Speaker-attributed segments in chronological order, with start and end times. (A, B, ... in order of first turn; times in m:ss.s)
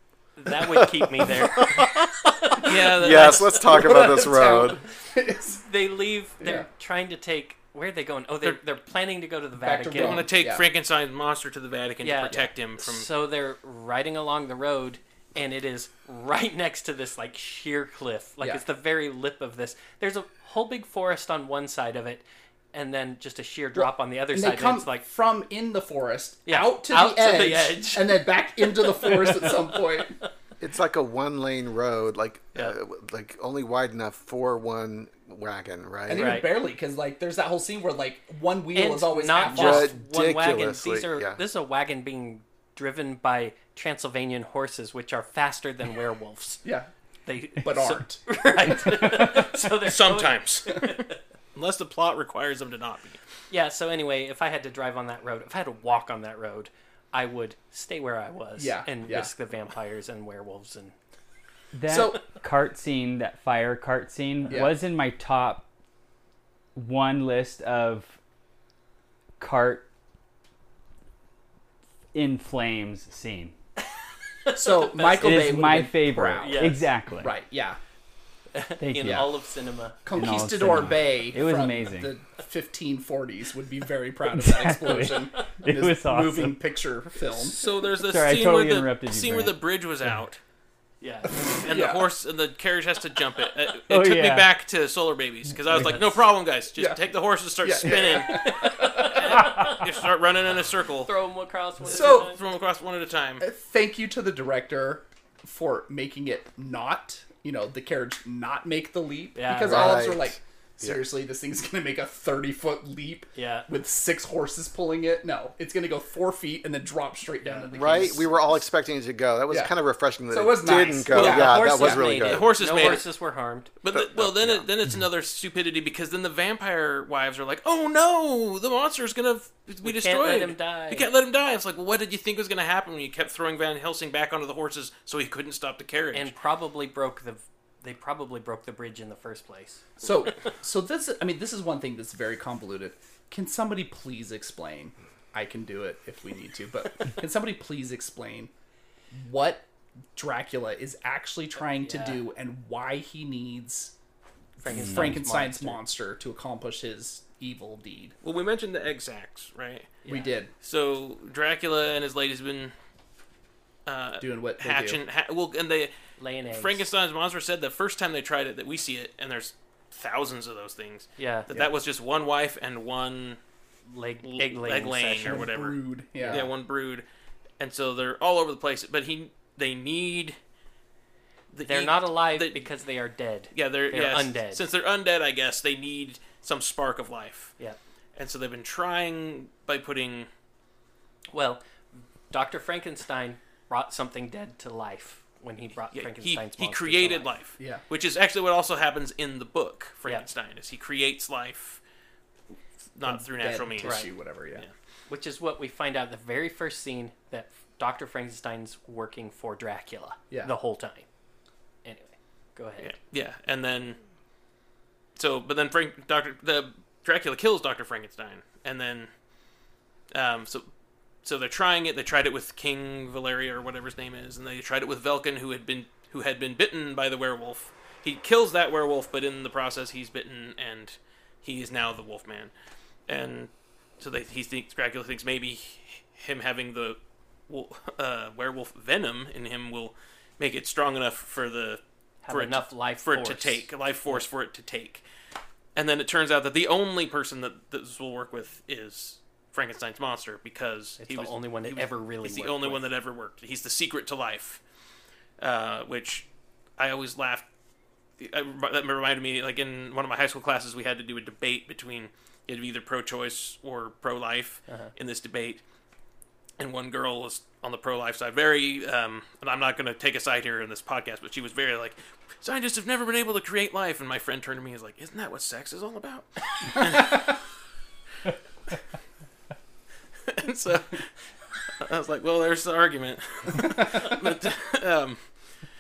0:00.4-0:02.6 A
0:00.6-0:02.1 B
0:02.6-0:03.6 C
0:02.7-0:04.8 B
0:03.5-0:05.6 D
0:05.6-0:10.2 A
0:06.4-0:06.7 D
0:09.6-0:10.6 D
0:09.9-0:13.1 C
0:12.0-0:25.0 A
0:23.8-0:30.2 D
0:26.5-0:30.3 A
0:30.6-0:36.4 B
0:36.1-0:40.0 D
0:36.2-0:36.5 A
0:38.8-0:46.6 A
0:39.5-0:41.4 B
0:46.6-0:46.9 D
0:47.3-0:51.2 A
0:47.6-0:49.2 D
0:49.8-0:53.2 C
0:53.5-1:00.9 A
0:58.6-0:59.3 D
1:01.7-1:05.7 E
1:01.9-1:02.4 D
1:04.5-1:04.8 D
1:06.8-1:08.2 E
1:09.4-1:09.9 E
1:12.1-1:13.5 E
1:14.5-1:15.5 A
1:14.5-1:17.8 D
1:15.2-1:17.4 E
1:16.4-1:16.8 A
1:18.6-1:20.0 A
1:18.8-1:19.3 E
1:19.0-1:19.3 D
1:20.0-1:27.6 D
1:20.1-1:22.1 E
1:24.3-1:26.6 E
1:27.4-1:30.4 C
1:28.0-1:29.6 E
1:31.0-1:31.6 A
1:31.6-1:41.1 C
1:31.7-1:32.1 D
1:33.9-1:34.5 E
1:37.6-1:39.4 D
1:38.3-1:39.9 A
1:41.0-1:42.4 A
1:41.8-1:42.4 D
1:41.9-1:43.4 C
1:43.4-1:58.5 D
1:49.4-1:50.1 A
1:49.6-1:51.0 B
1:53.4-1:53.7 A
1:57.4-1:57.7 A
1:57.7-2:02.9 B
2:00.3-2:02.1 D
2:01.1-2:01.5 C
2:01.2-2:03.7 A
2:02.2-2:03.0 C
2:03.8-2:16.3 C
2:03.9-2:04.7 B
2:09.8-2:11.1 A
2:16.1-2:19.8 A
2:20.0-2:28.5 D
2:29.1-2:33.9 D
2:31.6-2:32.2 A
2:34.6-2:35.8 A
2:34.6-2:38.2 D
2:34.7-2:35.2 E
2:38.2-2:40.0 C
2:40.0-2:40.4 A
2:40.1-2:40.5 D
2:40.6-2:42.7 C
2:43.9-2:45.9 C
2:44.2-2:45.0 D
2:46.2-2:46.8 A
2:46.5-2:53.4 C
2:51.2-2:51.5 A
2:53.9-2:55.5 A
2:54.2-2:57.0 C
2:55.2-2:56.5 D
2:56.2-2:56.5 A
2:57.6-3:00.4 C
3:01.5-3:02.7 C
3:01.7-3:04.6 A
3:03.5-3:07.5 C
3:08.2-3:10.3 C
3:11.3-3:11.6 A
3:12.3-3:17.3 A
3:15.9-3:21.8 C
3:23.0-3:24.7 C
3:23.0-3:24.7 D
3:23.8-3:24.1 A
3:25.1-3:31.1 A
3:31.8-3:32.9 A
3:32.8-3:34.0 C
3:35.2-3:39.1 C
3:40.1-3:40.7 C
3:41.2-3:52.5 C
3:53.1-4:05.0 C
4:02.2-4:04.3 A
4:05.8-4:14.6 C
4:11.0-4:12.9 A
4:15.4-4:16.3 C
4:16.8-4:17.4 C
4:18.2-4:25.6 C
4:26.6-4:37.4 C
4:40.3-4:41.1 C
4:41.8-4:45.2 C
4:43.6-4:44.1 D